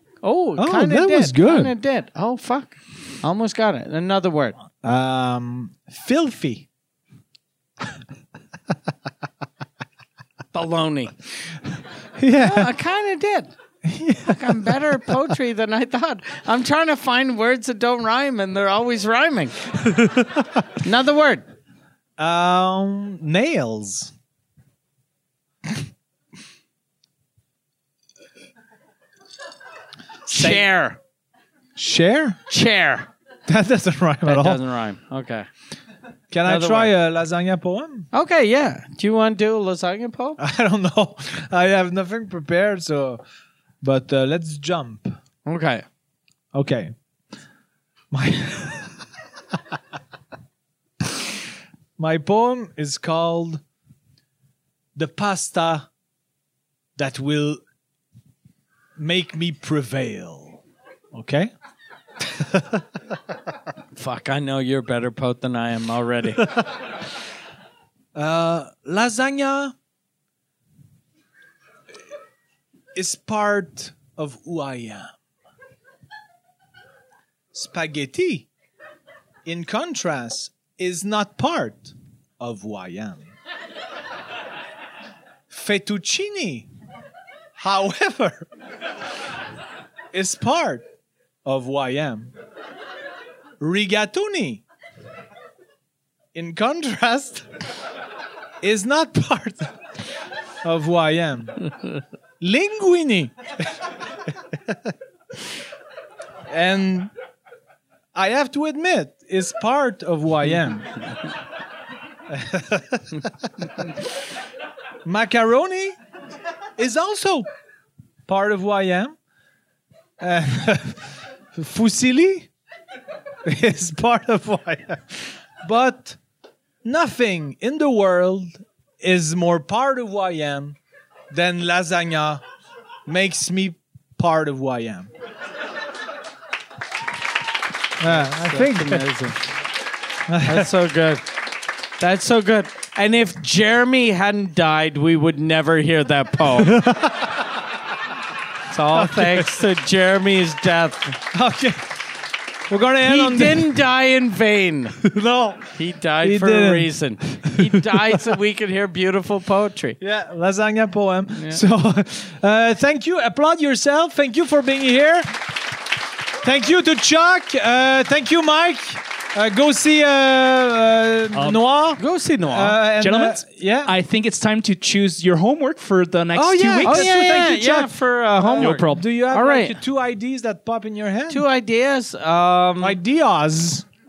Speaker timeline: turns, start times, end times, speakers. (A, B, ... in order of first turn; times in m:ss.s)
0:00.2-0:04.6 A
0:00.6-0:01.7 B
0:04.8-0:06.7 B
0:10.5-0:11.1 A
0:11.7-0:12.7 B
0:12.4-0:13.5 A
0:13.8-0:15.1 B
0:14.2-0:19.6 A
0:19.8-0:20.6 B
0:20.7-0:21.4 A
0:22.2-0:24.1 B
0:30.3-0:31.0 A
0:30.3-0:30.7 B
0:31.8-0:32.4 B
0:32.5-0:33.1 A
0:33.4-0:34.6 B
0:34.2-0:35.5 A
0:36.3-0:38.1 B
0:36.4-0:36.9 A
0:38.1-0:40.4 A
0:40.4-0:43.2 B
0:43.8-0:45.1 B
0:45.4-0:45.8 A
0:46.5-0:46.9 B
0:48.1-0:49.8 B
0:52.0-0:53.6 B
0:55.0-0:55.9 B
0:57.0-0:57.6 B
0:59.0-1:00.6 B
1:01.1-1:01.5 B
1:02.2-1:03.1 B
1:04.0-1:06.4 A
1:08.1-1:09.7 B
1:13.0-1:15.1 B
1:17.5-1:18.5 B
1:19.4-1:23.3 B
1:25.5-1:26.7 B
1:27.6-1:28.5 B
1:30.1-1:30.8 B
1:31.4-1:32.3 B
1:33.6-1:34.6 B
1:36.3-1:37.5 B
1:38.6-1:39.8 B
1:40.6-1:41.7 B
1:42.4-1:44.9 B
1:46.5-1:47.1 B
1:48.1-1:51.0 B
1:52.3-1:54.1 B
1:55.0-1:56.0 B
1:56.8-1:57.4 B
1:58.3-1:59.2 B
2:00.2-2:02.5 B
2:03.4-2:06.2 B
2:06.8-2:10.8 B
2:11.3-2:12.4 B
2:13.0-2:15.1 B
2:18.0-2:19.0 B
2:18.0-2:19.4 A
2:20.3-2:20.7 B
2:20.4-2:21.2 A
2:22.0-2:26.8 A
2:26.5-2:27.6 B
2:28.7-2:31.2 A
2:28.9-2:29.7 B
2:31.3-2:31.9 B
2:32.7-2:33.8 B
2:33.0-2:35.0 A
2:35.0-2:38.2 B
2:35.7-2:40.0 A
2:40.0-2:45.5 B
2:41.3-2:41.6 A
2:46.4-2:53.9 B
2:51.3-2:51.6 C
2:52.0-2:52.8 A
2:53.0-2:57.9 C
2:56.3-2:57.5 B
2:56.8-2:59.8 A
2:58.4-3:01.4 B
2:58.6-2:59.0 C
3:01.3-3:03.0 A
3:02.8-3:03.8 B